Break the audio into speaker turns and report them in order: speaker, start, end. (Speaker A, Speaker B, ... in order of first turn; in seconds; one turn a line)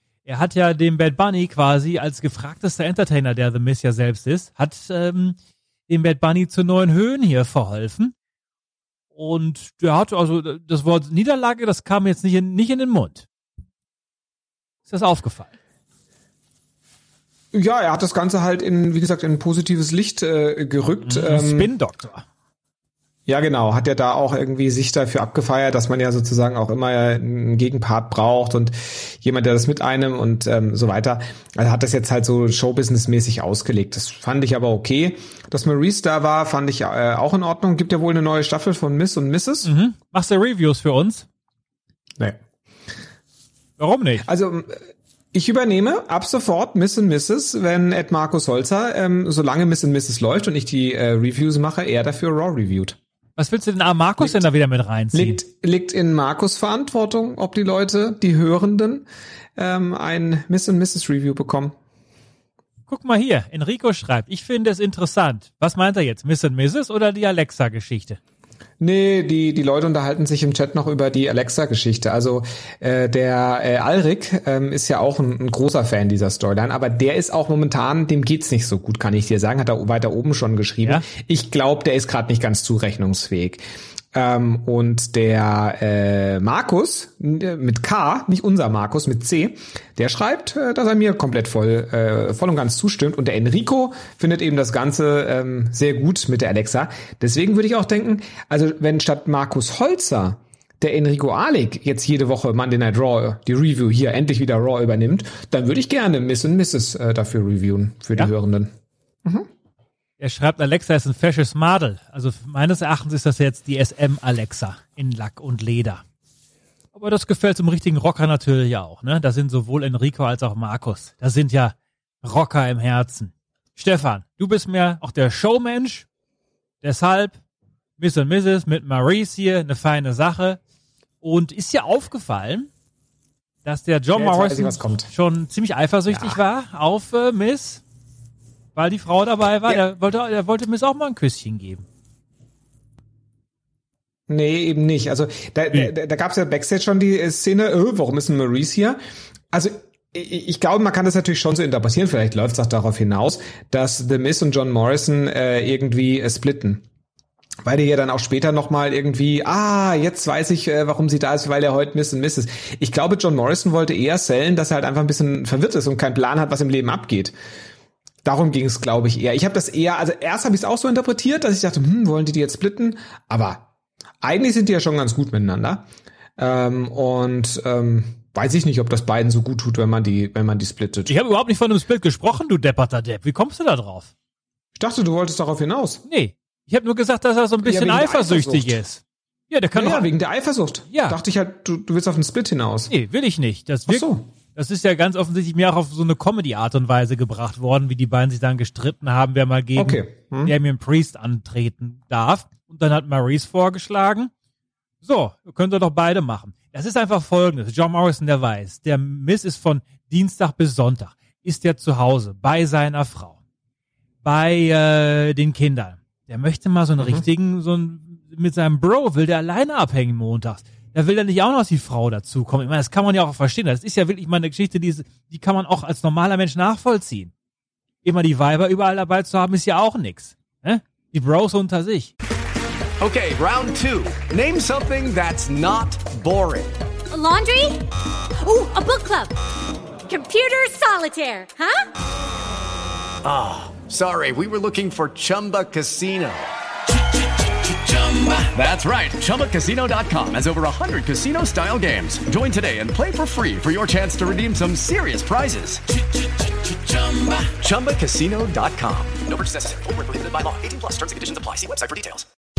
Speaker A: 0.2-5.4
Speaker A: 5.9-8.1
Speaker A: 9.1-13.2
Speaker A: 14.9-15.5
Speaker B: 17.5-21.7
Speaker A: 21.1-22.2
Speaker B: 23.2-39.7
Speaker A: 39.6-41.2
Speaker A: 43.8-44.2
Speaker B: 44.2-53.0
Speaker A: 53.4-55.4
Speaker B: 55.1-61.8
Speaker A: 62.9-68.2
Speaker B: 68.8-109.5
Speaker A: 110.2-116.0
Speaker A: 116.9-126.1
Speaker A: 126.8-127.4
Speaker A: 128.0-130.6
Speaker A: 131.2-132.7
Speaker A: 133.6-137.8
Speaker B: 134.1-135.1
Speaker B: 136.1-136.4
Speaker A: 138.7-141.8
Speaker B: 144.3-149.0
Speaker B: 149.5-156.8
Speaker B: 157.6-167.3
Speaker B: 168.2-173.7
Speaker B: 174.2-175.8
Speaker B: 176.4-181.2
Speaker A: 181.1-184.1
Speaker B: 184.8-186.0
Speaker A: 186.1-190.1
Speaker B: 187.6-188.8
Speaker B: 189.7-192.9
Speaker A: 190.9-191.2
Speaker A: 192.9-204.3
Speaker B: 193.9-194.2
Speaker B: 199.8-200.5
Speaker A: 205.0-213.4
Speaker A: 214.2-227.3
Speaker B: 217.0-217.2
Speaker A: 228.0-232.1
Speaker C: 233.0-236.8
Speaker D: 237.1-237.8
Speaker D: 238.4-239.3
Speaker D: 240.1-241.8
Speaker C: 243.2-246.5
Speaker C: 247.9-255.8
Speaker C: 257.0-262.2